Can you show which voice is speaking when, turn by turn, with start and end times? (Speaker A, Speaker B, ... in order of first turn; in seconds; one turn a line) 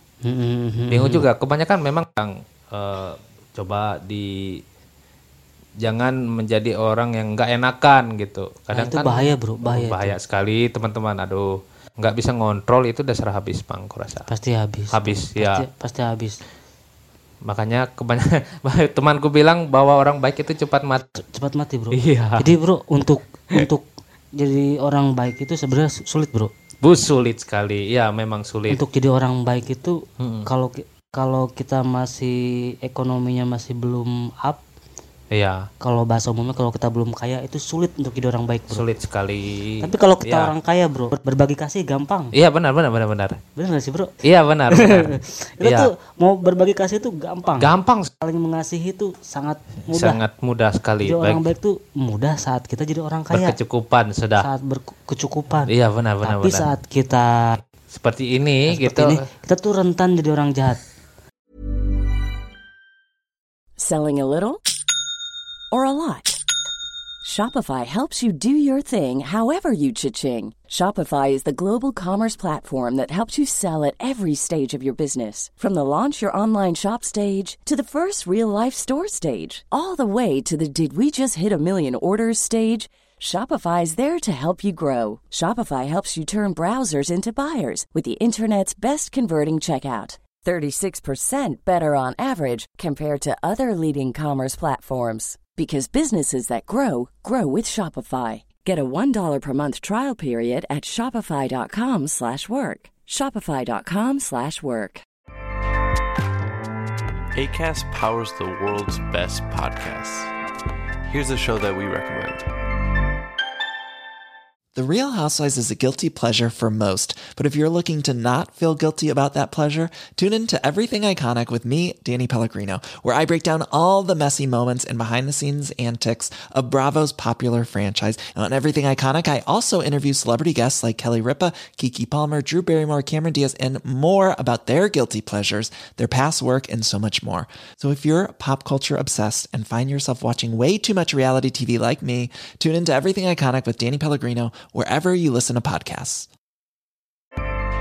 Speaker A: 0.2-1.2
Speaker B: 0.9-4.3
Speaker B: 5.8-14.3
Speaker A: 8.7-10.2
Speaker A: 14.3-16.4
Speaker B: 14.9-15.6
Speaker B: 17.4-21.1
Speaker A: 21.2-23.8
Speaker B: 21.9-22.4
Speaker A: 24.4-26.5
Speaker B: 26.8-28.8
Speaker A: 28.7-34.6
Speaker B: 30.2-30.5
Speaker B: 35.3-35.6
Speaker A: 35.8-38.8
Speaker B: 38.7-40.5
Speaker A: 39.8-42.3
Speaker B: 42.3-43.4
Speaker A: 43.5-44.1
Speaker B: 44.2-45.1
Speaker A: 44.7-50.2
Speaker B: 45.6-45.9
Speaker B: 47.6-48.1
Speaker B: 49.9-51.4
Speaker A: 51.0-53.5
Speaker B: 53.3-54.5
Speaker A: 54.4-57.5
Speaker B: 55.7-56.6
Speaker B: 57.9-59.2
Speaker A: 58.7-60.8
Speaker C: 63.8-64.6
Speaker C: 65.7-66.4
Speaker C: 67.2-105.0
Speaker D: 107.3-110.3
Speaker D: 111.1-112.4
Speaker E: 114.7-146.3